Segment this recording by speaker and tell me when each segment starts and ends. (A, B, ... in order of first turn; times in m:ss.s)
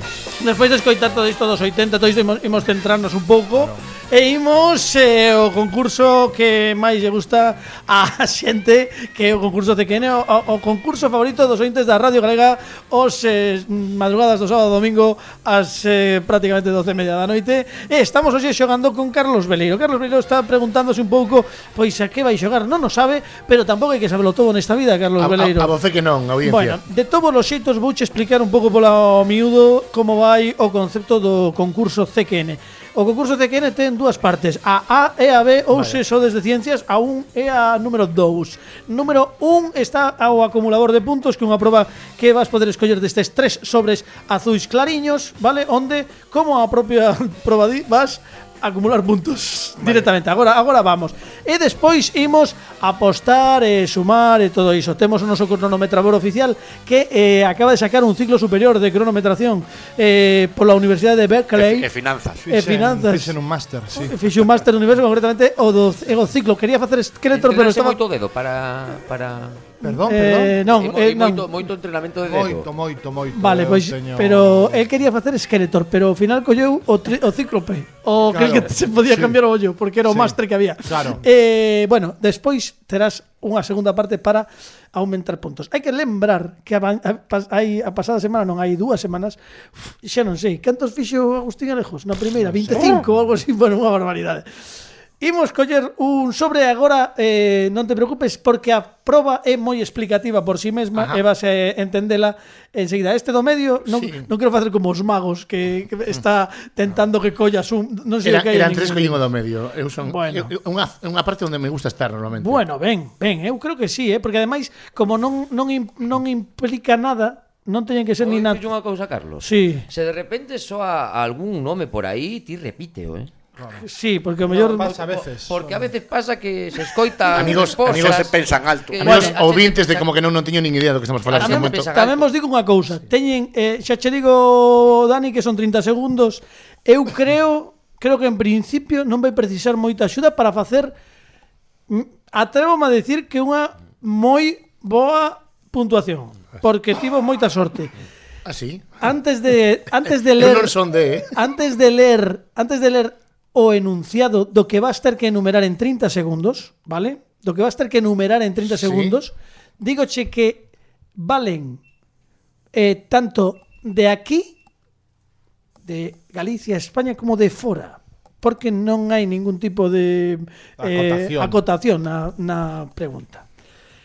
0:00.4-0:25.7 A
0:25.2-0:26.8 B
0:26.4-1:01.9 A
0:35.7-0:36.0 B
1:01.6-1:02.5 C
1:02.5-1:04.2 D
1:02.5-1:03.4 A
1:03.9-1:08.0 A
1:07.3-1:09.7 E
1:09.8-1:10.6 D
1:09.8-1:11.5 A
1:10.7-1:12.7 E
1:12.2-1:14.9 D
1:13.3-1:34.4 A
1:18.3-1:19.4 D
1:20.0-1:21.2 D
1:32.7-1:33.0 B
1:35.2-1:49.3 A
1:41.0-1:41.2 B
1:43.9-1:44.3 B
1:48.2-1:52.6 B
1:50.0-1:50.5 A
1:52.4-1:58.6 A
1:58.2-2:03.3 E
1:59.4-1:59.9 A
2:03.6-2:03.8 D
2:03.8-2:04.9 A
2:04.5-2:10.1 E
2:04.7-2:05.9 D
2:07.3-2:08.3 B
2:07.8-2:09.2 C
2:09.0-2:11.9 B
2:09.0-2:09.3 A
2:11.3-2:12.3 E
2:11.4-2:21.0 A
2:21.9-2:27.9 A
2:28.4-2:29.0 B
2:29.0-2:41.8 A
2:30.1-2:31.3 B
2:38.7-2:39.2 B
2:42.7-2:44.6 A
2:45.8-2:53.5 A
2:50.8-2:51.6 D